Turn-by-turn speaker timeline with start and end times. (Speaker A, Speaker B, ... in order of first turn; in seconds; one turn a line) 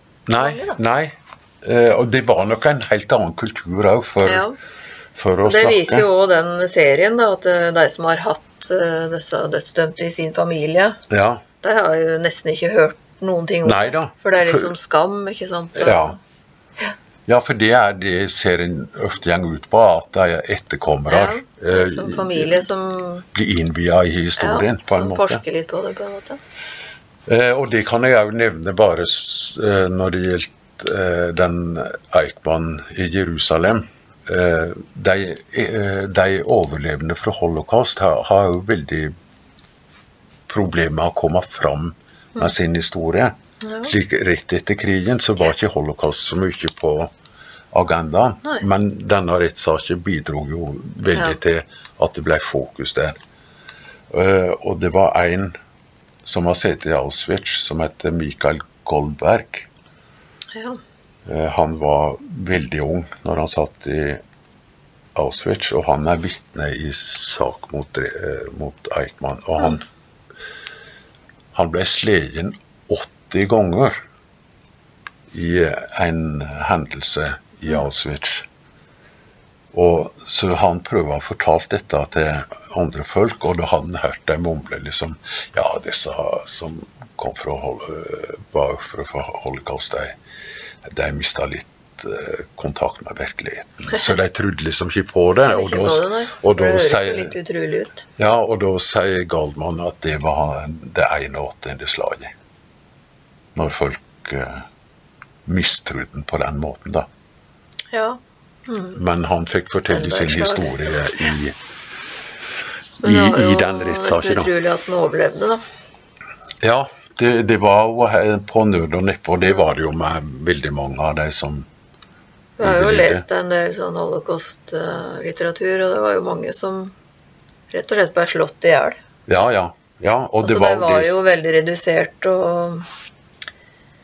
Speaker A: 0.3-4.5
Speaker B: 0.3-0.8
Speaker B: 4.2-4.5
Speaker A: 5.1-6.0
Speaker B: 5.4-11.0
Speaker A: 11.1-11.4
Speaker B: 11.6-16.2
Speaker A: 13.6-14.7
Speaker A: 15.8-16.2
Speaker A: 17.3-22.5
Speaker B: 21.1-23.2
Speaker A: 23.3-25.4
Speaker B: 24.4-26.4
Speaker A: 27.3-39.1
Speaker A: 40.5-47.1
Speaker B: 43.6-43.9
Speaker A: 47.7-53.2
Speaker A: 54.1-55.5
Speaker A: 56.2-59.7
Speaker B: 60.5-60.8
Speaker A: 61.2-64.2
Speaker A: 65.1-69.8
Speaker A: 71.5-74.0
Speaker A: 75.3-78.5
Speaker A: 79.7-90.2
Speaker A: 90.8-97.3
Speaker B: 95.5-98.0
Speaker A: 98.2-102.3
Speaker A: 103.5-104.6
Speaker A: 105.5-107.1
Speaker B: 107.9-109.0
Speaker A: 108.9-111.6
Speaker B: 109.9-111.0
Speaker A: 113.0-114.5
Speaker B: 113.0-115.6
Speaker A: 116.6-121.7
Speaker B: 122.6-126.9
Speaker A: 122.6-123.2
Speaker B: 127.7-129.0
Speaker A: 129.3-131.2
Speaker B: 130.4-132.8